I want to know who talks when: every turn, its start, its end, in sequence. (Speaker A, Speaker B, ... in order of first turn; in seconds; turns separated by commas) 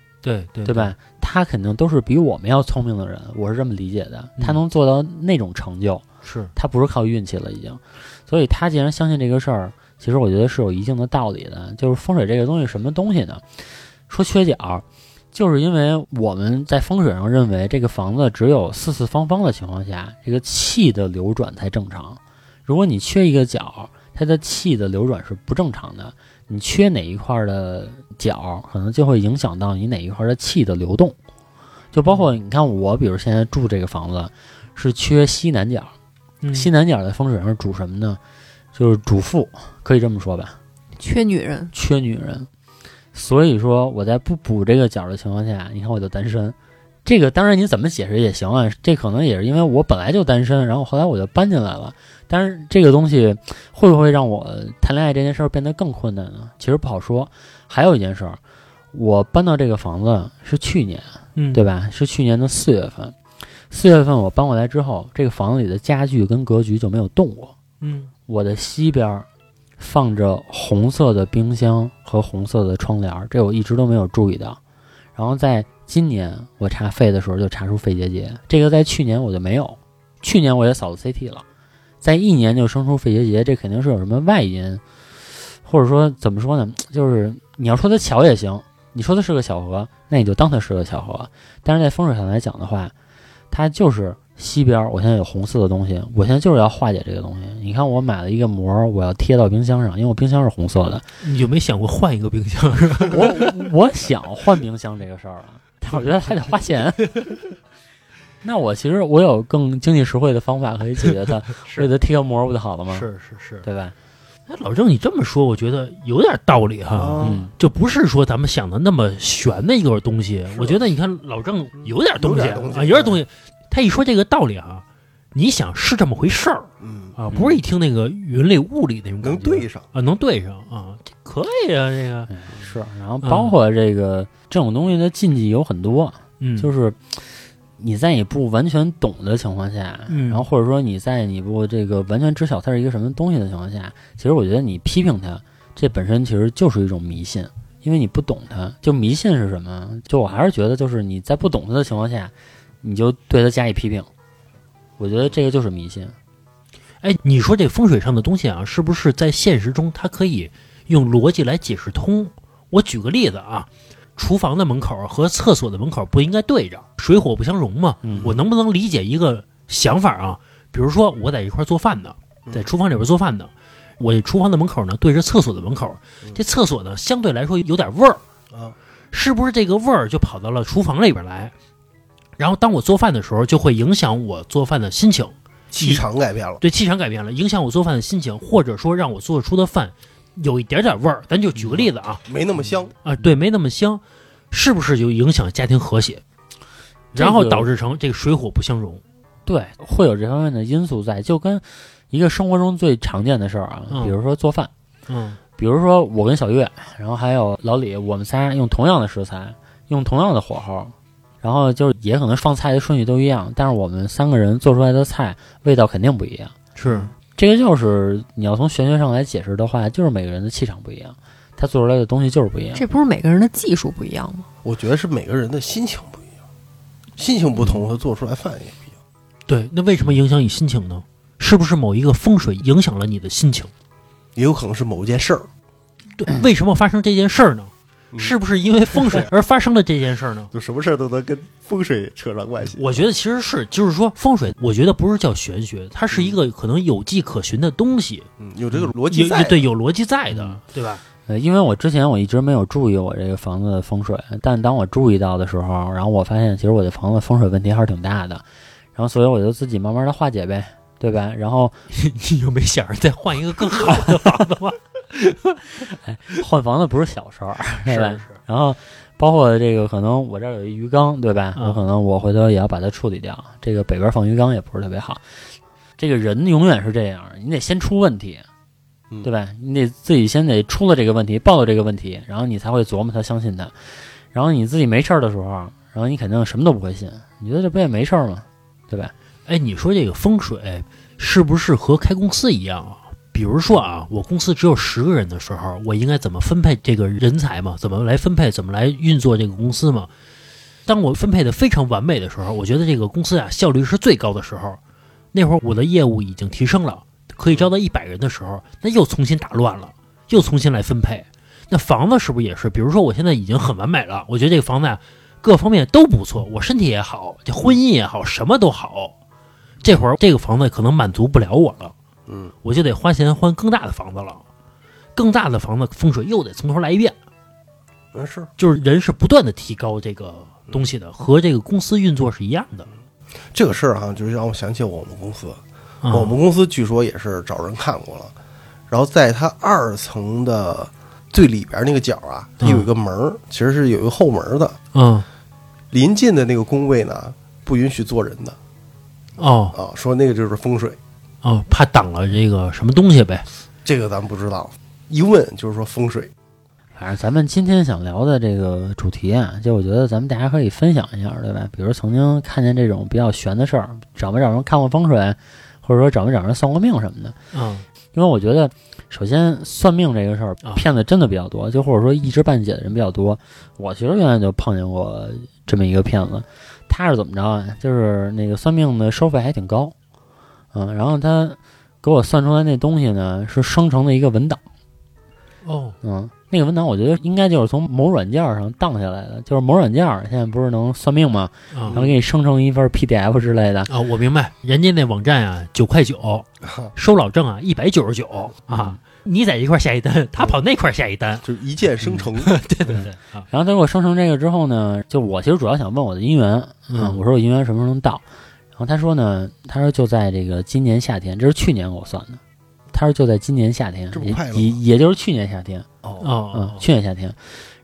Speaker A: 0.2-0.9, Speaker B: 0.6-6.0, Speaker A: 6.2-6.5, Speaker B: 6.5-31.1, Speaker B: 31.9-35.9, Speaker A: 36.4-36.7, Speaker B: 36.5-38.2, Speaker B: 38.7-40.5, Speaker C: 41.0-41.7, Speaker B: 41.7-42.5, Speaker B: 43.1-58.4, Speaker B: 58.9-63.1, Speaker A: 61.4-61.6, Speaker B: 63.7-67.5, Speaker A: 67.8-68.1, Speaker B: 68.3-69.3, Speaker B: 69.8-74.6, Speaker B: 75.2-81.4, Speaker B: 82.0-84.8, Speaker B: 85.6-92.9, Speaker B: 93.5-101.0, Speaker A: 101.2-103.5, Speaker B: 103.1-107.3, Speaker B: 108.4-113.1, Speaker A: 112.9-113.6, Speaker B: 113.6-113.9, Speaker A: 114.5-132.3, Speaker D: 116.9-117.4, Speaker B: 117.2-117.5, Speaker D: 120.5-120.8, Speaker D: 121.8-123.2, Speaker D: 126.8-127.1, Speaker B: 127.3-127.6, Speaker D: 129.2-129.8, Speaker B: 132.3-137.2, Speaker A: 133.2-133.5, Speaker A: 136.4-136.7, Speaker B: 137.8-154.1, Speaker A: 140.1-140.4, Speaker B: 155.0-156.1, Speaker A: 157.0-178.2, Speaker B: 168.0-168.3, Speaker A: 179.1-181.5, Speaker A: 182.4-186.0, Speaker D: 185.7-186.6, Speaker A: 186.6-192.2, Speaker D: 192.3-192.9, Speaker A: 193.0-196.2, Speaker A: 197.1-199.0, Speaker B: 197.2-197.7, Speaker B: 199.4-204.7, Speaker A: 205.1-205.4, Speaker B: 205.6-216.5, Speaker A: 216.8-217.1, Speaker B: 217.4-222.8, Speaker C: 222.7-224.4, Speaker D: 224.6-226.3, Speaker D: 227.2-228.9, Speaker A: 227.6-227.8, Speaker A: 229.5-233.7, Speaker D: 234.3-235.5, Speaker A: 236.2-240.5, Speaker D: 240.5-243.0, Speaker A: 242.7-251.0, Speaker D: 246.1-246.4, Speaker D: 248.4-249.6, Speaker B: 250.3-250.6, Speaker B: 251.2-261.8, Speaker A: 261.9-265.6, Speaker B: 265.8-275.2, Speaker A: 267.9-268.4, Speaker A: 271.6-271.8, Speaker B: 276.0-278.4, Speaker B: 279.2-283.7, Speaker B: 284.3-289.1, Speaker A: 289.5-300.1, Speaker A: 300.9-304.8, Speaker A: 305.3-319.1, Speaker A: 319.8-321.9, Speaker D: 322.3-322.5, Speaker A: 322.6-324.4, Speaker A: 325.1-327.1, Speaker D: 328.1-328.5, Speaker A: 328.6-332.9, Speaker D: 333.5-338.3, Speaker A: 336.0-336.3, Speaker D: 338.9-344.8, Speaker A: 342.6-342.9, Speaker A: 344.9-345.2, Speaker D: 345.9-348.6, Speaker A: 349.4-349.8, Speaker D: 349.7-351.0, Speaker A: 351.4-353.4, Speaker D: 353.8-356.3, Speaker B: 356.9-367.4, Speaker A: 367.5-367.8, Speaker B: 368.1-379.9, Speaker B: 380.7-384.6, Speaker A: 385.6-386.0, Speaker B: 386.0-393.9, Speaker A: 391.7-392.0, Speaker D: 391.9-392.1, Speaker A: 393.9-401.4, Speaker B: 398.7-399.0, Speaker D: 401.4-402.6, Speaker A: 402.0-403.5, Speaker B: 402.9-408.2, Speaker A: 406.9-407.2, Speaker B: 408.7-412.4, Speaker B: 412.9-415.9, Speaker D: 414.1-414.8, Speaker D: 416.0-416.3, Speaker A: 416.2-416.8, Speaker B: 416.5-417.4